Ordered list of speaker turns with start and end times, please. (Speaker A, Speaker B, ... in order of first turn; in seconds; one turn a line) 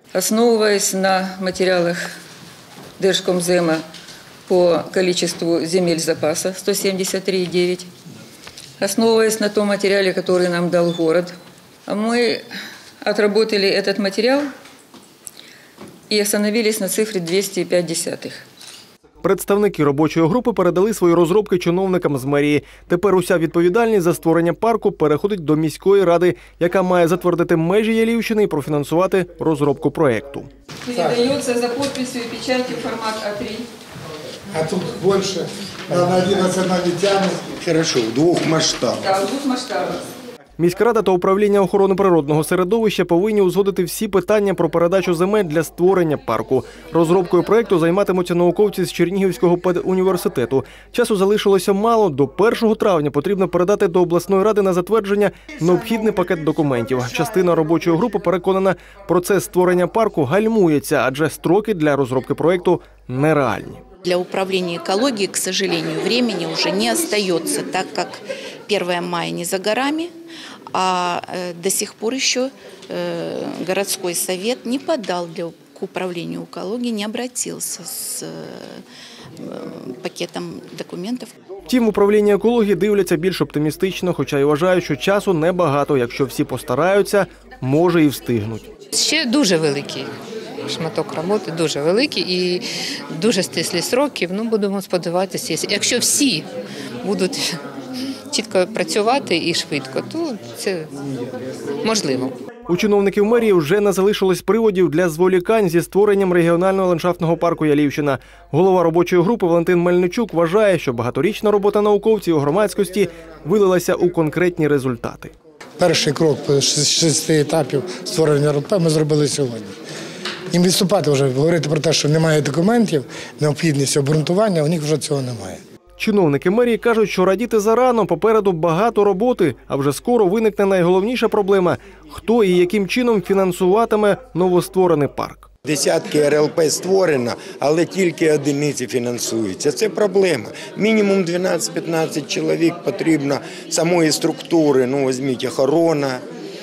Speaker A: 0.1-2.0
Speaker A: 3.0-3.8
Speaker A: 4.5-7.9
Speaker A: 8.8-11.3
Speaker A: 11.9-12.4
Speaker A: 13.0-14.5
Speaker A: 16.1-18.4
Speaker B: 19.2-30.5
Speaker A: 30.9-33.7
Speaker C: 34.5-37.5
Speaker D: 37.6-39.1
Speaker A: 39.0-40.1
Speaker B: 40.6-63.8
Speaker E: 64.0-70.1
Speaker E: 70.7-78.8
Speaker E: 79.4-81.3
Speaker B: 81.7-88.7
Speaker F: 88.9-90.1
Speaker F: 90.7-96.5
Speaker F: 97.0-97.6
Speaker F: 98.3-100.9
Speaker F: 101.8-102.3
Speaker B: 102.7-115.3
Speaker C: 115.8-119.8
Speaker C: 120.5-125.6
Speaker B: 126.0-135.5
Speaker D: 135.7-146.2